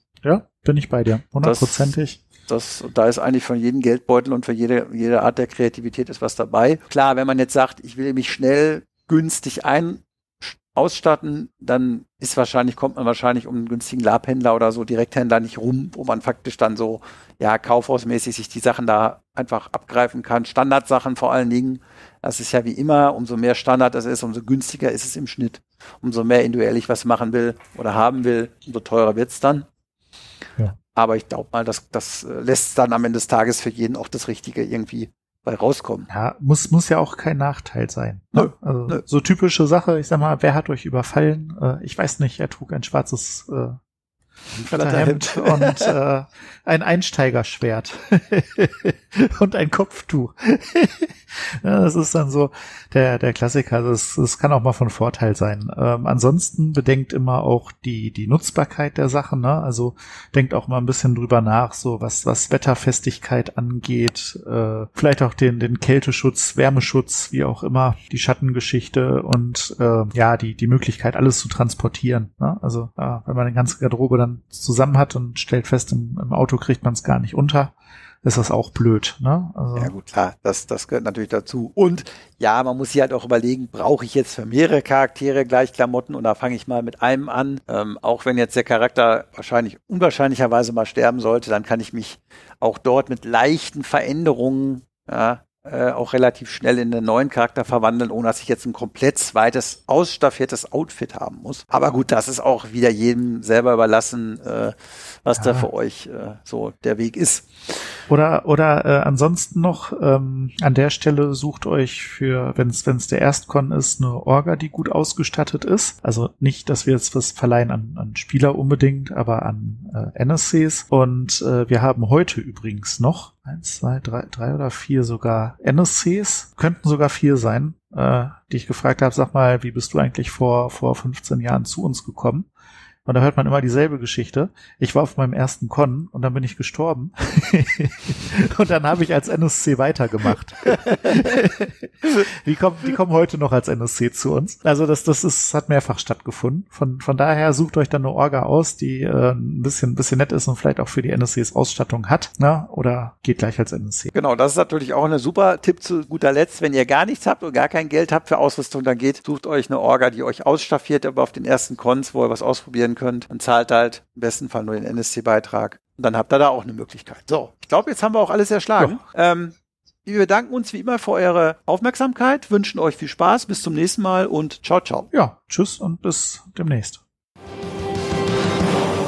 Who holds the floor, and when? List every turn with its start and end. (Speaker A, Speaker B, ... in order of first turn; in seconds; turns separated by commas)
Speaker A: 0.2-2.2, Speaker B: 1.4-1.9, Speaker B: 2.5-29.6, Speaker B: 30.9-36.1, Speaker A: 36.1-43.8, Speaker B: 38.4-39.0, Speaker B: 44.5-45.9, Speaker A: 44.7-79.9, Speaker B: 79.8-107.7, Speaker A: 105.3-105.7, Speaker A: 108.1-132.5, Speaker A: 133.1-154.1, Speaker B: 154.1-175.1, Speaker A: 175.1-177.0